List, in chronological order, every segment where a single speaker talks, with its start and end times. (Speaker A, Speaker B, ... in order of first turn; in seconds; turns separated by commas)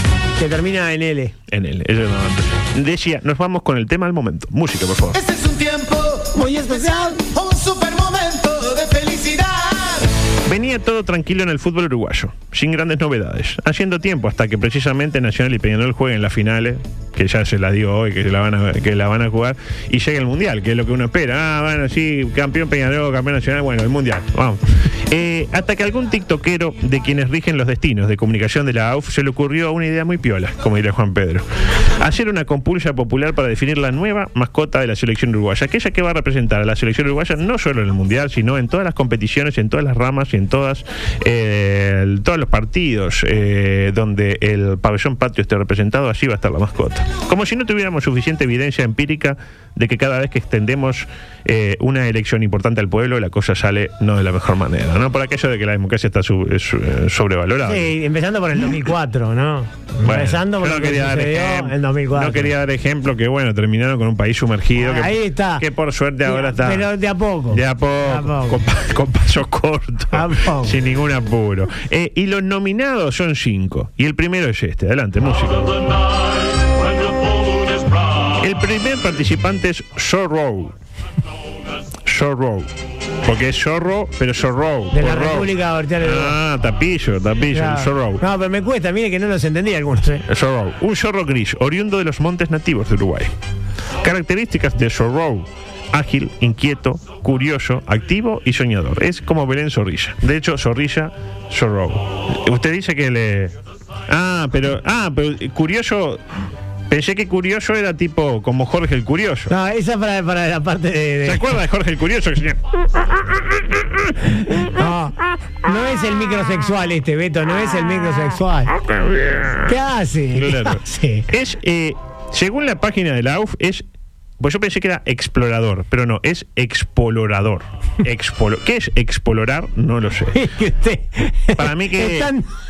Speaker A: 0.4-1.3, Speaker B: 1.5-5.2, Speaker C: 5.1-10.1, Speaker A: 6.3-7.2, Speaker B: 10.5-31.4, Speaker B: 32.0-57.9, Speaker A: 57.7-62.5, Speaker B: 60.0-66.9, Speaker A: 64.8-65.6, Speaker A: 66.3-68.6, Speaker B: 67.5-76.3, Speaker A: 70.1-70.8, Speaker B: 78.2-80.8, Speaker B: 82.0-82.7, Speaker B: 83.2-88.2, Speaker A: 84.9-86.4, Speaker A: 87.5-90.2, Speaker B: 90.3-93.3, Speaker B: 94.0-103.6, Speaker B: 104.1-106.2, Speaker B: 106.9-109.5, Speaker A: 109.5-111.4, Speaker B: 111.2-112.6, Speaker A: 114.6-118.7, Speaker B: 118.8-119.8, Speaker A: 119.7-121.3, Speaker B: 120.3-123.8, Speaker B: 124.4-130.4, Speaker A: 130.3-132.5, Speaker B: 131.6-132.3